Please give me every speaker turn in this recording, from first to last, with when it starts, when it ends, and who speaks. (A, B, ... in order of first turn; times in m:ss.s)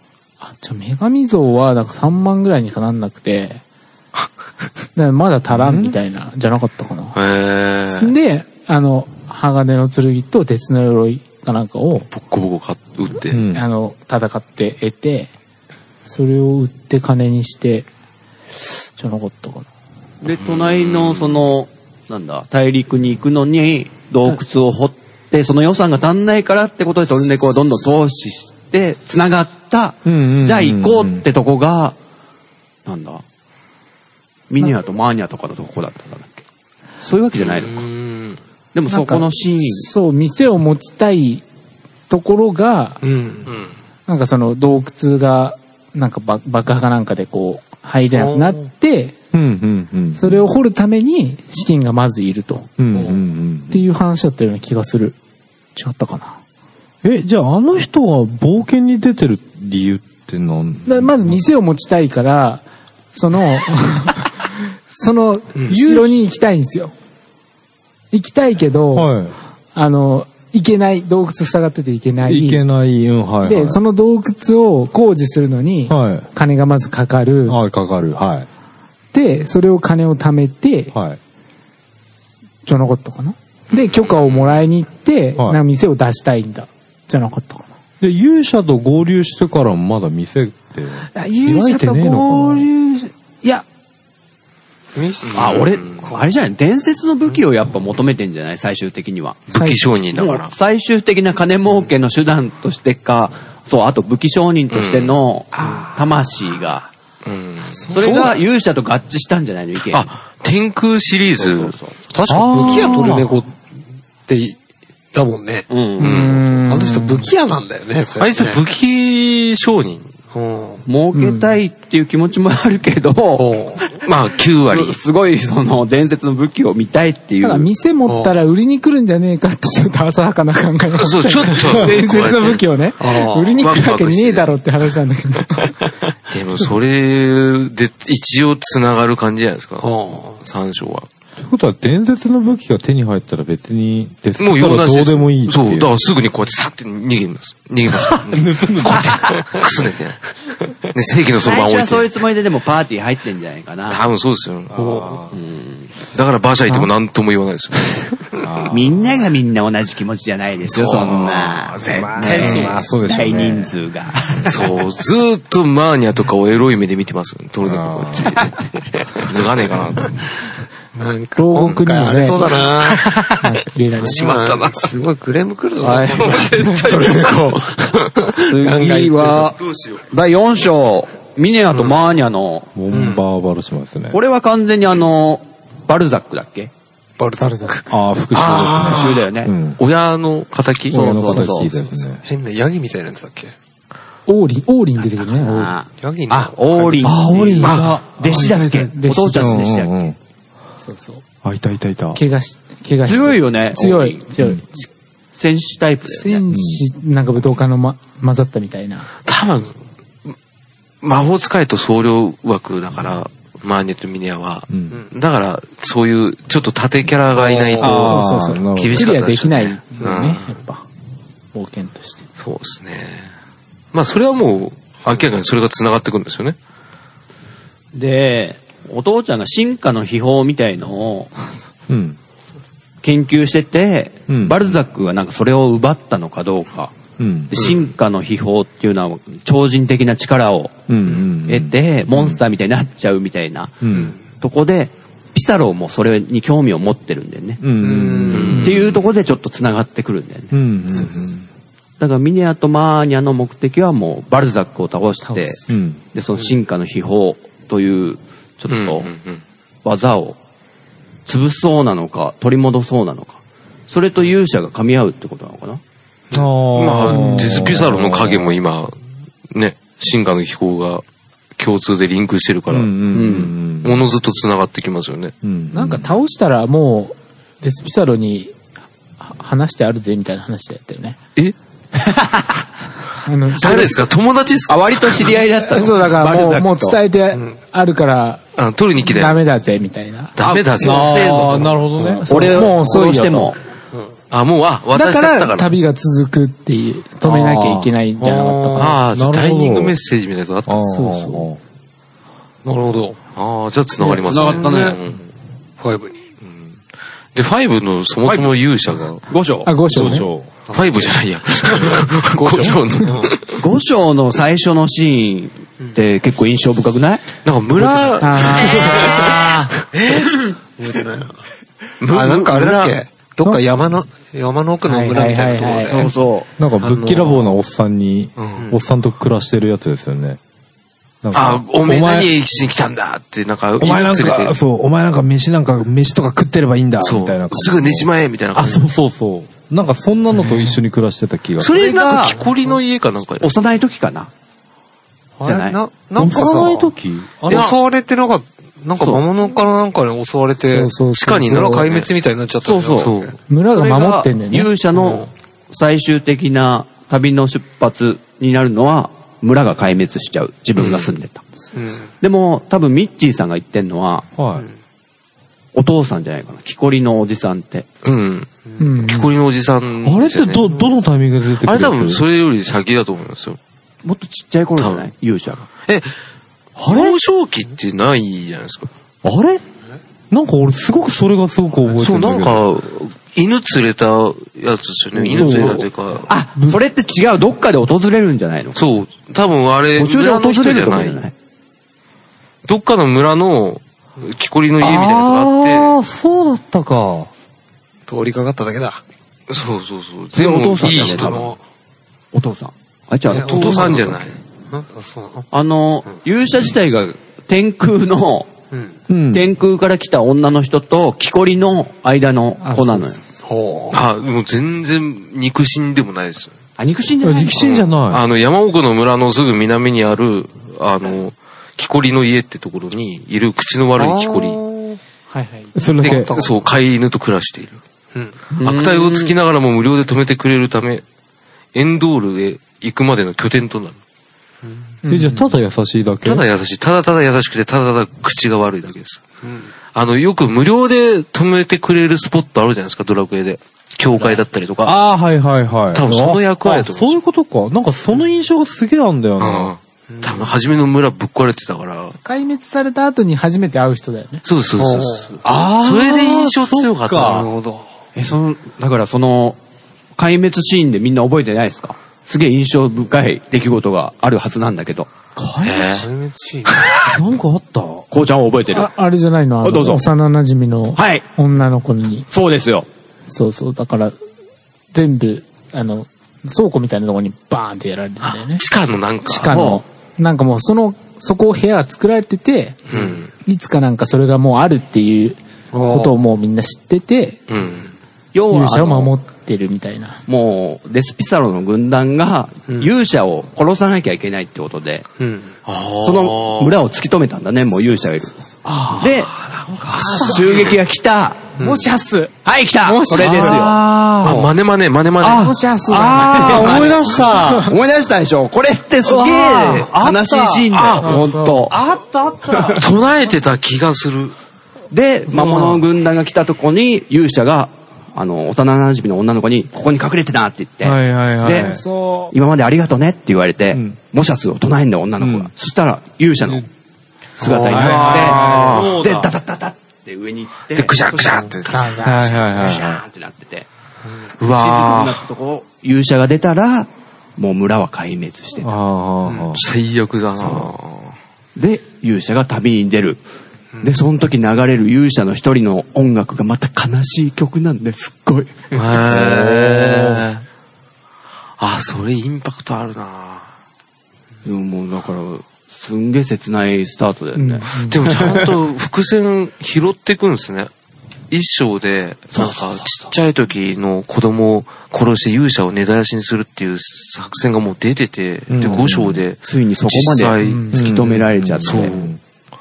0:00.4-0:03.6 A
0:05.0-0:07.2 A
0:05.5-0:06.0 B
0:07.2-0:08.1 C
0:07.9-0:12.1 A
0:12.1-0:13.4 C
0:13.3-0:13.6 B
0:13.4-0:15.3 A
0:16.0-0:17.9 A
0:18.6-0:19.7 A
0:20.2-0:32.0 D
0:20.4-0:21.5 C
0:30.0-0:31.2 B
0:32.9-0:33.2 D
0:34.5-0:36.4 D
0:37.0-0:37.9 D
0:37.4-0:38.4 C
0:38.7-0:39.9 D
0:38.9-0:41.4 A
0:42.1-0:43.0 A
0:43.0-0:43.5 E
0:43.5-0:43.7 C
0:44.1-0:49.2 A
0:48.1-0:48.6 E
0:49.3-0:50.4 B
0:50.2-0:52.7 A
0:52.8-0:53.8 B
0:52.9-0:53.2 E
0:53.7-0:55.2 A
0:55.8-0:56.4 A
0:57.0-1:01.4 B
1:00.8-1:06.9 A
1:05.7-1:06.1 B
1:08.1-1:09.2 A
1:08.9-1:09.3 B
1:09.7-1:12.6 A
1:12.3-1:13.8 B
1:13.4-1:17.6 A
1:15.9-1:16.3 B
1:17.5-1:18.5 B
1:19.1-1:20.9 A
1:20.9-1:21.2 B
1:22.7-1:27.7 A
1:23.7-1:24.6 C
1:28.0-1:32.7 B
1:31.1-1:33.6 A
1:34.9-1:36.2 E
1:35.2-1:36.0 C
1:35.4-1:39.5 D
1:39.5-1:40.5 C
1:39.5-1:39.8 A
1:40.1-1:46.9 D
1:44.7-1:45.2 C
1:47.2-1:48.4 C
1:47.7-1:48.3 A
1:47.9-1:50.1 D
1:49.8-1:51.8 C
1:51.4-1:52.0 D
1:52.1-1:53.6 E
1:52.3-1:53.4 B
1:54.3-1:54.6 E
1:55.1-1:55.7 E
1:55.7-1:56.3 D
1:56.0-1:57.3 A
1:56.0-1:56.4 C
1:56.4-1:58.6 E
1:58.2-2:00.1 C
2:00.3-2:00.8 E
2:00.8-2:04.0 D
2:01.1-2:01.5 A
2:03.4-2:03.8 E
2:04.0-2:05.0 C
2:04.7-2:07.7 D
2:07.4-2:15.8 A
2:08.1-2:08.4 E
2:11.0-2:12.6 C
2:13.0-2:13.6 E
2:13.6-2:14.5 C
2:16.3-2:21.1 C
2:19.8-2:20.4 E
2:21.4-2:25.9 B
2:24.4-2:30.2 C
2:28.0-2:29.5 B
2:30.9-2:32.1 C
2:31.4-2:34.0 D
2:33.9-2:34.7 C
2:34.7-2:35.3 B
2:34.7-2:35.2 E
2:35.3-2:35.9 D
2:36.1-2:38.1 C
2:38.4-2:39.0 B
2:38.7-2:44.7 D
2:40.6-2:41.7 C
2:41.9-2:43.7 B
2:42.2-2:42.8 E
2:42.3-2:42.8 C
2:44.4-2:48.5 C
2:47.6-2:48.4 B
2:49.2-2:50.2 C
2:50.9-2:53.3 E
2:51.4-2:52.7 A
2:52.8-2:53.3 C
2:53.4-2:54.4 A
2:54.0-2:55.0 C
2:54.0-2:59.5 E
2:56.0-2:57.5 C
2:58.4-3:02.7 D
2:59.6-3:00.0 C
3:02.8-3:04.2 B
3:02.9-3:03.2 E
3:04.1-3:06.7 D
3:07.2-3:09.2 E
3:07.4-3:07.8 A
3:07.9-3:09.8 B
3:08.8-3:09.5 D
3:09.8-3:11.3 C
3:10.9-3:11.9 D
3:10.9-3:12.2 B
3:12.2-3:13.5 E
3:14.3-3:15.8 A
3:15.3-3:20.1 D
3:16.0-3:17.2 E
3:17.0-3:18.5 B
3:17.6-3:18.0 C
3:18.2-3:19.7 A
3:19.3-3:20.2 B
3:20.8-3:21.2 A
3:21.4-3:22.2 B
3:22.1-3:24.9 A
3:23.0-3:24.2 D
3:25.4-3:26.4 D
3:26.1-3:29.1 A
3:26.5-3:26.8 B
3:29.3-3:29.8 C
3:31.0-3:40.4 C
3:34.7-3:35.0 B
3:37.4-3:38.0 E
3:37.8-3:39.1 B
3:37.8-3:40.8 A
3:41.5-3:42.2 A
3:42.4-3:43.3 C
3:43.9-3:46.6 C
3:47.9-3:51.3 D
3:51.9-3:52.2 B
3:53.0-3:57.0 D
3:54.3-3:54.7 B
3:57.2-3:57.5 B
3:57.5-4:00.9 D
4:00.9-4:02.4 B
4:01.4-4:07.7 D
4:03.8-4:04.2 B
4:03.9-4:04.2 E
4:07.6-4:09.0 B
4:07.8-4:08.7 E
4:08.3-4:09.0 C
4:08.5-4:10.6 D
4:10.5-4:11.5 B
4:12.0-4:19.1 D
4:15.2-4:15.7 A
4:15.7-4:16.0 B
4:18.7-4:19.4 C
4:19.8-4:20.4 D
4:21.3-4:25.8 D
4:26.3-4:28.6 B
4:26.7-4:29.0 C
4:29.5-4:31.0 C
4:31.6-4:35.3 C
4:32.7-4:34.0 B
4:33.1-4:33.5 D
4:35.4-4:36.1 B
4:35.7-4:38.5 A
4:39.2-4:41.2 A
4:41.9-4:42.6 D
4:43.2-4:44.0 A
4:43.6-4:45.4 C
4:44.7-4:47.0 D
4:45.6-4:48.4 A
4:48.6-4:49.4 C
4:49.0-4:50.4 A
4:50.4-4:51.4 C
4:50.4-4:53.6 D
4:50.8-4:52.2 B
4:52.1-4:53.6 A
4:54.3-4:55.8 C
4:55.0-4:59.0 A
4:57.3-4:57.8 E
4:58.3-5:00.8 C
4:59.1-5:00.0 B
5:00.7-5:01.6 B
5:00.8-5:01.5 A
5:02.6-5:03.2 E
5:03.4-5:05.2 C
5:04.1-5:05.0 D
5:04.3-5:04.9 E
5:05.8-5:06.2 E
5:06.4-5:06.7 C
5:07.3-5:09.2 C
5:08.2-5:08.6 D
5:09.3-5:09.7 D
5:09.6-5:10.3 A
5:09.9-5:10.5 B
5:10.7-5:11.1 E
5:10.7-5:13.6 C
5:11.6-5:13.4 E
5:13.6-5:17.3 D
5:17.4-5:20.3 C
5:18.2-5:19.7 A
5:18.7-5:21.4 E
5:22.0-5:23.0 C
5:22.1-5:26.1 E
5:24.9-5:26.1 A
5:25.9-5:26.5 D
5:26.6-5:30.4 B
5:26.8-5:27.5 C
5:26.8-5:27.2 E
5:28.4-5:28.6 C
5:31.2-5:32.3 B
5:31.3-5:34.6 C
5:33.8-5:41.8 B
5:37.0-5:38.9 C
5:41.6-5:43.5 C
5:41.6-5:42.4 D
5:43.4-5:44.3 D
5:45.4-5:46.9 E
5:45.4-5:45.8 D
5:46.2-5:47.7 B
5:47.5-5:53.4 E
5:47.5-5:47.8 C
5:50.6-5:51.9 A
5:51.1-5:52.1 C
5:52.6-5:53.1 D
5:53.0-5:53.3 C
5:53.5-5:54.7 A
5:53.7-6:01.4 D
5:54.9-5:55.3 E
6:00.8-6:01.1 C
6:01.7-6:02.1 E
6:02.2-6:04.3 D
6:04.4-6:04.7 B
6:05.7-6:07.9 D
6:08.0-6:10.6 C
6:08.8-6:09.3 A
6:10.0-6:12.2 B
6:11.6-6:13.6 C
6:14.0-6:15.7 D
6:14.8-6:15.1 C
6:15.9-6:16.2 C
6:16.8-6:17.2 B
6:16.8-6:18.9 C
6:19.2-6:19.6 B
6:20.3-6:22.7 B
6:22.0-6:26.3 C
6:25.2-6:25.9 B
6:26.3-6:28.8 D
6:28.8-6:31.2 C
6:30.0-6:31.3 D
6:32.7-6:36.0 C
6:34.8-6:37.3 B
6:38.1-6:39.0 E
6:39.5-6:41.5 C
6:40.3-6:41.5 D
6:40.8-6:41.6 E
6:42.3-6:44.2 D
6:43.3-6:44.1 E
6:43.3-6:44.4 C
6:44.7-6:45.5 E
6:45.5-6:48.5 D
6:49.1-6:49.5 B
6:49.3-6:53.2 D
6:52.6-6:53.2 A
6:53.4-6:54.0 E
6:53.9-6:56.5 C
6:56.8-6:57.6 D
6:57.2-6:58.2 B
6:57.5-7:04.6 C
7:04.0-7:05.0 E
7:05.3-7:05.8 A
7:05.8-7:06.3 B
7:06.0-7:06.7 E
7:06.0-7:07.8 C
7:08.5-7:09.3 D
7:08.6-7:11.0 C
7:11.7-7:14.0 C
7:15.0-7:15.4 A
7:15.1-7:16.5 B
7:16.2-7:19.3 C
7:19.9-7:25.0 C
7:24.8-7:29.7 B
7:25.9-7:27.2 C
7:29.4-7:32.2 C
7:30.2-7:30.4 E
7:32.2-7:34.4 A
7:34.4-7:37.5 C
7:34.8-7:35.4 E
7:35.4-7:37.5 B
7:37.2-7:37.9 E
7:38.2-7:39.6 D
7:40.2-7:45.1 D
7:45.4-7:46.0 B
7:45.6-7:46.1 C
7:45.8-7:46.9 E
7:47.1-7:48.1 B
7:48.1-7:48.9 D
7:48.7-7:52.3 A
7:49.6-7:50.1 D
7:51.0-7:51.2 D
7:52.3-7:52.9 D
7:53.3-7:54.2 A
7:54.9-7:58.6 A
7:58.2-7:59.7 C
7:59.2-8:02.8 A
7:59.5-7:59.8 D
8:02.9-8:03.3 C
8:02.9-8:03.2 E
8:03.4-8:07.4 A
8:05.7-8:06.1 E
8:07.5-8:07.9 C
8:08.3-8:09.1 D
8:08.5-8:10.2 A
8:10.3-8:15.1 D
8:15.2-8:15.5 E
8:15.7-8:16.8 C
8:16.0-8:18.4 D
8:18.6-8:19.1 A
8:18.9-8:19.4 D
8:19.4-8:20.2 E
8:19.9-8:21.5 D
8:20.0-8:20.8 C
8:21.6-8:21.9 E
8:21.6-8:23.6 A
8:22.4-8:23.8 D
8:23.2-8:24.5 B
8:24.2-8:25.6 C
8:24.2-8:24.5 E
8:25.2-8:27.8 B
8:25.4-8:27.7 A
8:26.2-8:31.8 D
8:29.0-8:30.7 B
8:30.7-8:31.2 C
8:31.0-8:31.7 A
8:31.7-8:32.8 B
8:32.5-8:32.8 D
8:32.8-8:34.4 C
8:34.9-8:41.8 D
8:35.4-8:35.7 B
8:40.8-8:41.8 B
8:41.6-8:42.3 A
8:42.3-8:46.7 D
8:45.2-8:45.5 B
8:47.4-8:53.7 D
8:47.4-8:48.0 E
8:47.7-8:49.0 C
8:47.7-8:49.4 B
8:50.7-8:52.0 C
8:51.7-8:52.5 A
8:52.0-8:53.0 B
8:54.4-8:55.2 C
8:54.4-8:58.7 D
8:58.6-8:59.6 B
8:59.3-8:59.6 E
8:59.5-9:01.2 C
9:00.5-9:00.7 D
9:01.6-9:03.2 D
9:03.8-9:10.2 D
9:08.7-9:10.4 C
9:11.6-9:13.5 C
9:14.4-9:18.5 D
9:17.4-9:18.0 A
9:17.9-9:20.7 C
9:21.3-9:31.0 C
9:22.3-9:23.1 D
9:28.5-9:29.2 B
9:29.4-9:32.1 D
9:30.4-9:30.8 A
9:30.7-9:32.2 B
9:31.6-9:32.2 C